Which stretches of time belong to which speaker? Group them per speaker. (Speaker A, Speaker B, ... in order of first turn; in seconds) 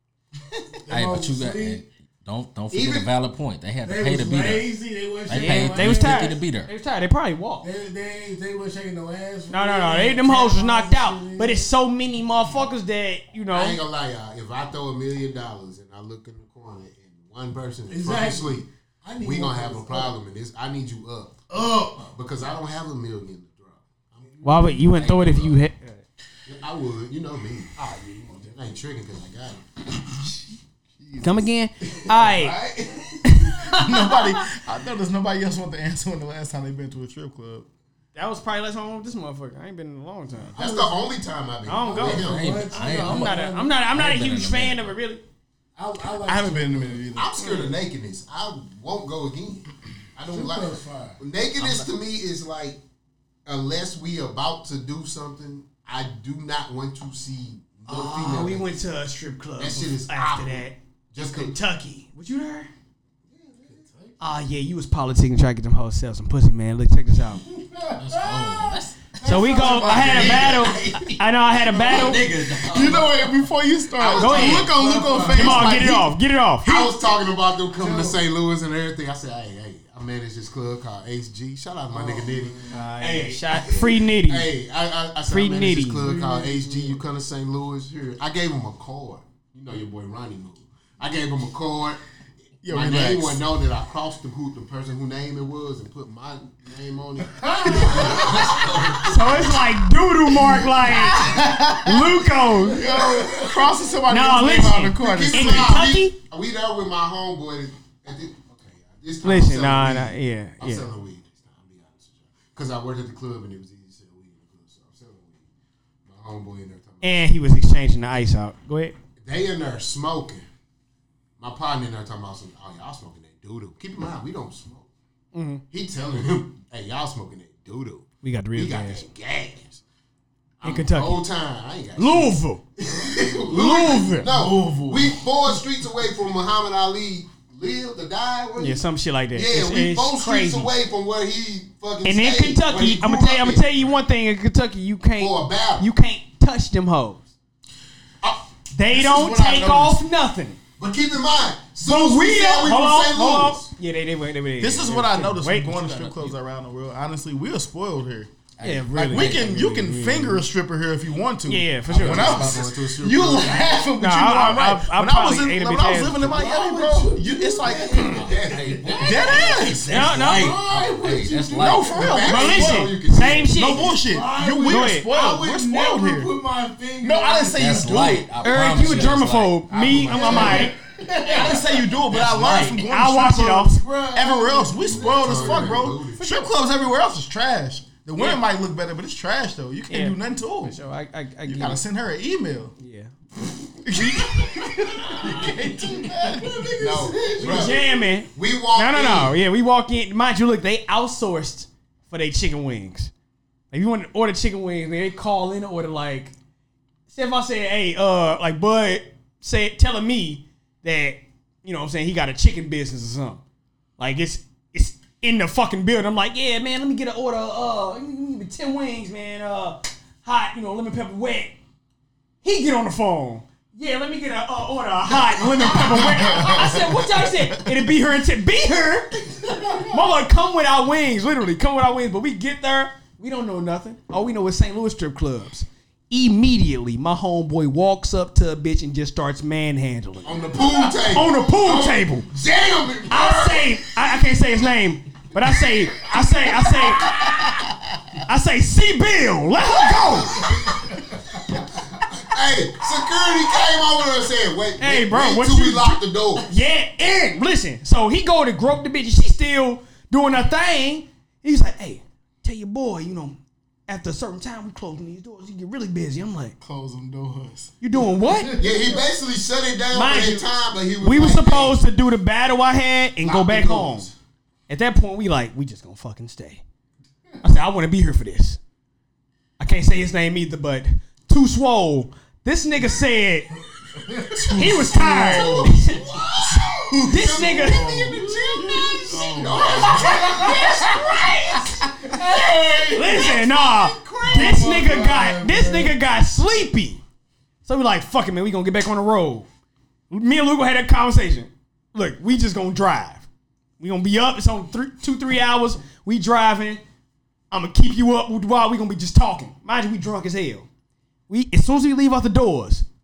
Speaker A: 0.9-1.9, 3.8-6.4, 7.6-11.7, 17.9-20.1, 21.5-22.1, 24.3-24.9, 40.6-40.9, 41.8-43.8, 45.8-47.1, 50.3-51.2, 63.5-64.2, 67.4-70.4, 74.3-75.8, 77.7-78.2, 81.9-83.4, 86.0-87.0, 97.3-98.7, 102.8-103.6, 166.4-168.2, 170.0-171.9, 174.0-177.8, 180.0-181.9, 183.7-185.8, 195.4-197.7, 284.1-284.4, 289.8-290.5, 292.1-293.2, 294.2-295.9
Speaker B: 0.9-4.7, 5.3-6.7, 24.9-25.6, 42.2-43.4, 43.9-44.9, 68.0-69.2, 70.1-70.8, 71.7-73.1, 155.9-156.3, 158.6-159.6, 161.9-162.8, 168.0-172.2, 177.5-179.6, 182.1-182.8
Speaker C: 2.7-3.1, 13.5-18.6, 19.2-21.4, 22.0-24.2, 26.4-29.6, 31.9-33.3, 40.5-42.5, 47.1-52.8, 53.5-58.7, 59.6-61.5, 70.2-71.0, 71.8-72.1, 74.0-74.7, 76.6-82.7, 83.6-92.0, 92.7-99.5, 105.0-115.4, 116.0-117.3, 119.2-120.5, 121.4-124.9, 125.7-129.8, 130.6-144.0, 145.2-145.9, 148.2-148.5, 150.8-153.7, 162.0-163.8, 167.2-170.1, 170.7-174.0, 179.7-180.8, 184.8-186.4, 196.8-199.3, 240.2-243.8, 250.3-256.5, 268.6-271.8, 273.2-274.1, 285.2-290.8, 293.0-294.8
Speaker D: 5.3-7.7, 9.5-13.8, 24.4-26.0, 31.2-32.5, 33.2-34.4, 38.1-40.7, 41.6-45.2, 57.9-62.7, 64.2-67.4, 69.2-72.2, 74.2-74.7, 75.2-76.9, 82.7-84.5, 85.3-86.0, 99.0-102.8, 104.1-106.2, 109.2-110.9, 117.0-118.9, 125.3-125.6, 128.2-129.0, 130.6-131.2, 132.0-132.6, 133.5-134.3, 138.6-140.7, 142.0-147.3, 148.7-150.6, 151.8-156.0, 158.6-160.4, 161.5-162.5, 164.0-166.4, 169.8-170.6, 172.2-173.9, 174.6-175.1, 178.4-180.7, 182.8-183.8, 189.9-191.8, 192.8-193.1, 193.9-194.4, 197.4-203.1, 203.7-206.3, 207.1-213.4, 214.0-221.6, 222.4-240.4, 241.1-242.3, 243.1-247.5, 248.2-250.5, 254.8-263.4, 263.9-266.6, 267.8-268.6, 269.9-270.5, 271.0-274.1, 274.7-276.6, 277.4-278.6, 279.6-283.5, 284.4-286.0, 287.1-288.1, 289.6-291.8, 292.7-297.0, 297.6-299.5, 300.1-303.2, 303.8-306.8, 307.5-310.7, 311.3-312.9
Speaker E: 31.0-31.5, 33.6-37.7, 46.2-47.4, 69.5-70.7, 72.6-76.1, 92.6-93.4, 97.7-98.7, 100.3-105.8, 134.2-135.5, 148.9-150.0, 154.6-158.3, 158.9-168.2, 169.0-170.0, 171.6-173.0, 173.5-176.3, 177.0-178.3, 180.3-180.5, 181.3-190.8, 191.4-192.7, 193.8-197.8, 225.6-227.9, 247.1-247.7, 266.6-268.9, 284.2-285.9, 286.4-291.2, 291.8-293.2